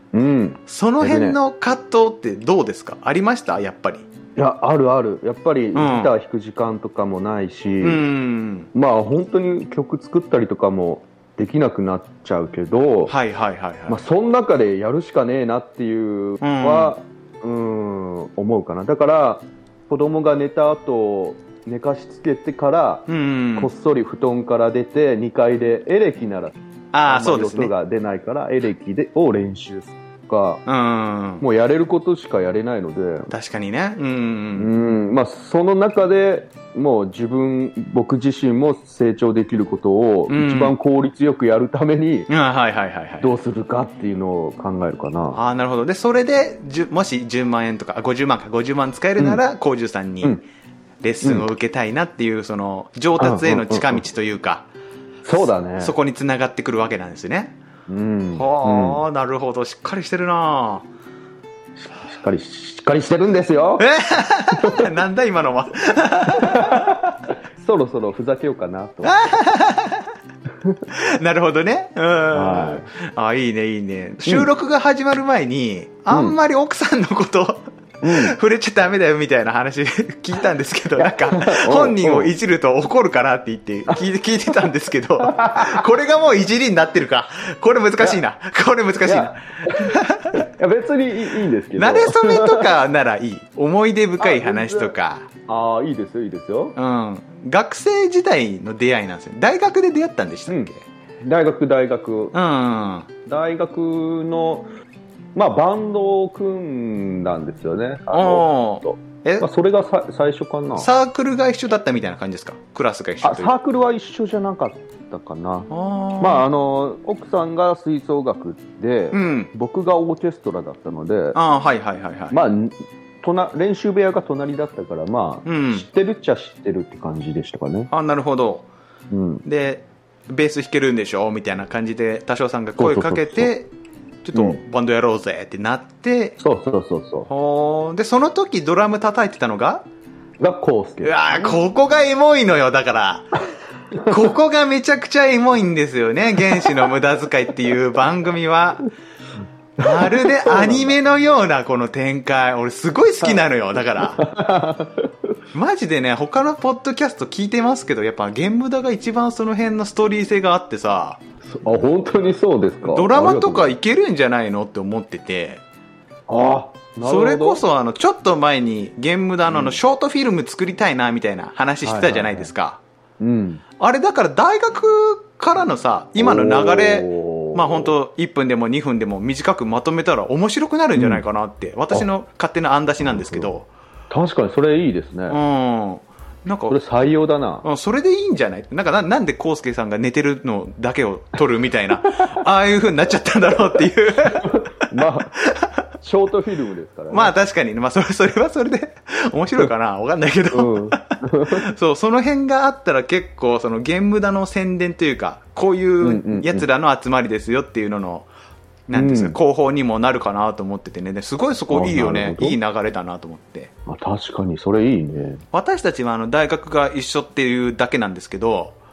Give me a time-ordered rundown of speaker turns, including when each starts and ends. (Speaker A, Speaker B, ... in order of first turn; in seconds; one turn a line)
Speaker A: 0.1-1.4
Speaker B: 0.7-4.1
Speaker A: 4.3-8.0
Speaker B: 5.7-6.1
Speaker B: 7.8-8.7
Speaker A: 8.7-13.1
Speaker B: 13.1-14.0
Speaker A: 13.9-30.6
Speaker B: 16.4-16.9
Speaker B: 23.1-23.7
Speaker B: 26.9-27.7
Speaker B: 30.6-31.4
Speaker A: 31.4-33.3
Speaker B: 33.3-34.7
Speaker A: 34.5-42.3
Speaker B: 40.3-40.7
Speaker B: 42.3-43.3
Speaker A: 43.2-45.4
Speaker B: 45.3-50.4
Speaker B: 51.0-54.6
Speaker A: 53.2-54.0
Speaker A: 55.2-55.9
Speaker B: 55.4-57.5
Speaker A: 57.9-59.0
Speaker B: 58.3-60.9
Speaker A: 61.8-63.9
Speaker B: 63.8-67.0
Speaker A: 64.5-64.9
Speaker A: 66.4-67.0
Speaker A: 67.6-69.2
Speaker B: 69.0-70.1
Speaker B: 70.9-90.4
Speaker A: 72.3-72.8
Speaker A: 76.1-76.4
Speaker A: 78.0-78.3
Speaker A: 81.0-82.3
Speaker A: 85.2-85.8
Speaker A: 89.0-92.7
Speaker B: 91.8-95.3
Speaker A: 94.2-94.9
Speaker A: 95.5-96.8
Speaker B: 96.8-100.8
Speaker A: 100.5-102.3
Speaker B: 102.3-103.1
Speaker A: 103.2-104.7
Speaker A: 105.3-110.9
Speaker B: 108.1-109.5
Speaker B: 110.8-113.5
Speaker A: 113.2-115.7
Speaker B: 115.7-116.5
Speaker A: 116.2-121.4
Speaker B: 119.1-119.5
Speaker B: 121.3-122.4
Speaker A: 122.3-127.9
Speaker B: 125.4-125.8
Speaker B: 127.9-128.7
Speaker A: 129.1-129.4
Speaker B: 129.4-133.7
Speaker A: 132.8-133.5
Speaker B: 134.2-136.4
Speaker A: 136.4-137.3
Speaker B: 137.3-139.8
Speaker A: 140.4-141.5
Speaker B: 141.0-143.3
Speaker B: 143.9-148.9
Speaker B: 149.8-154.2
Speaker A: 149.8-150.9
Speaker A: 154.2-155.3
Speaker B: 155.5-161.2
Speaker A: 161.4-163.7
Speaker B: 162.8-165.6
Speaker A: 166.3-167.6
Speaker B: 167.0-172.8
Speaker A: 169.5-169.8
Speaker A: 171.8-172.5
Speaker A: 173.2-173.6
Speaker B: 173.8-183.7
Speaker A: 176.2-177.9
Speaker A: 180.9-181.2
Speaker A: 183.0-183.5
Speaker A: 184.1-185.4
Speaker B: 185.3-186.8
Speaker A: 186.7-187.6
Speaker B: 187.6-195.8
Speaker A: 194.3-195.4
Speaker A: 196.0-197.3
Speaker B: 197.1-208.3
Speaker A: 200.5-201.7
Speaker A: 206.0-206.7
Speaker B: 208.9-213.7
Speaker A: 208.9-209.4
Speaker A: 211.7-212.6
Speaker A: 213.9-215.4
Speaker B: 215.5-218.8